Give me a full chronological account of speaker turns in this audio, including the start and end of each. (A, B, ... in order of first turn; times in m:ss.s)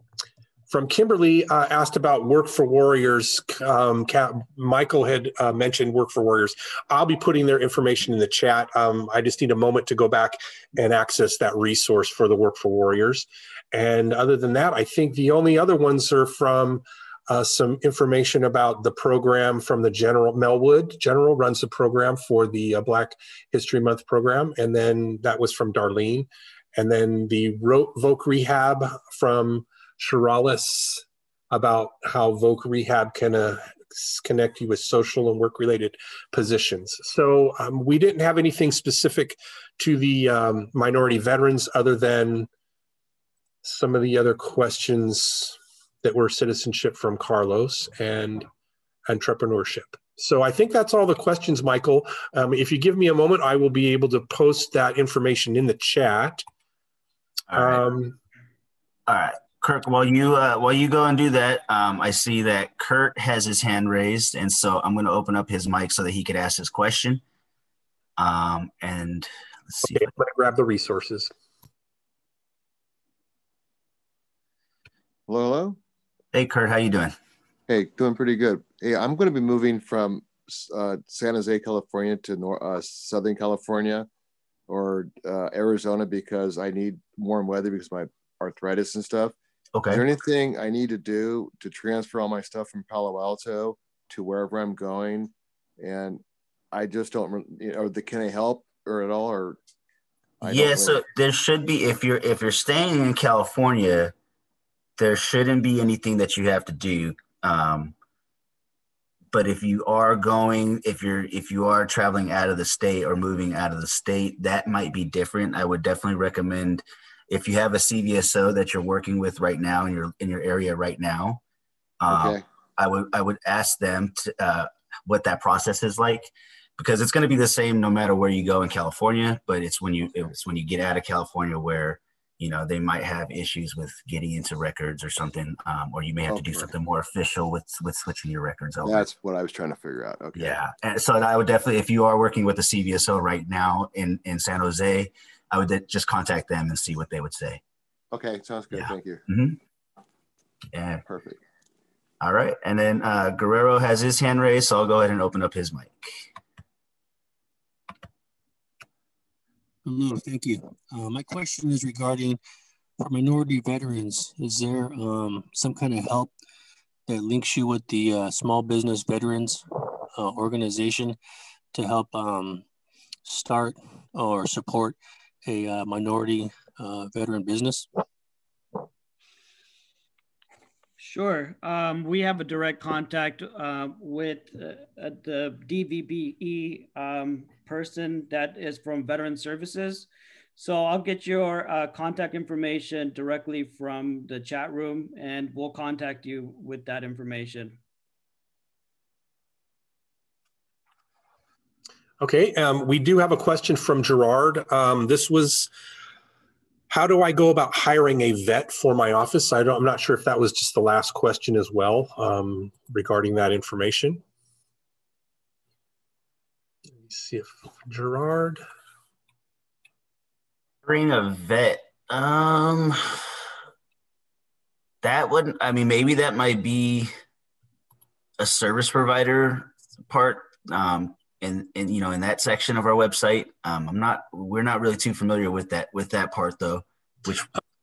0:00.7-0:42.5 A
0:43.6-0:48.5 A
0:49.1-0:56.4 A
0:57.5-0:57.8 B
0:57.5-0:58.2 A
0:59.1-1:07.2 B
1:08.2-1:10.1 B
1:09.9-1:11.3 A
1:15.3-1:15.8 C
1:16.3-1:17.2 B
1:17.7-1:24.1 C
1:24.7-1:29.4 C
1:29.8-1:30.0 B
1:29.9-1:39.6 C
1:40.4-1:41.0 C
1:40.4-1:44.1 B
1:45.0-1:48.0 B
1:49.3-2:01.4 B
2:02.0-2:19.1 B
2:02.1-2:02.4 C
2:16.3-2:16.7 C
2:18.8-2:20.6 C
2:20.4-2:27.6 B
2:28.1-2:29.2 C
2:28.7-2:29.6 B
2:30.7-2:31.0 B
2:31.1-2:31.4 C
2:32.2-2:36.3 B
2:39.9-2:42.4 D
2:43.0-2:46.3 D
2:47.1-2:51.2 D
2:51.7-2:52.6 D
2:53.2-2:57.9 D
3:01.0-3:17.8 E
3:22.2-3:25.7 A
3:26.9-3:34.2 A
3:36.9-3:38.6 A
3:40.8-3:43.4 B
3:45.0-3:47.1 B
3:48.4-3:57.5 B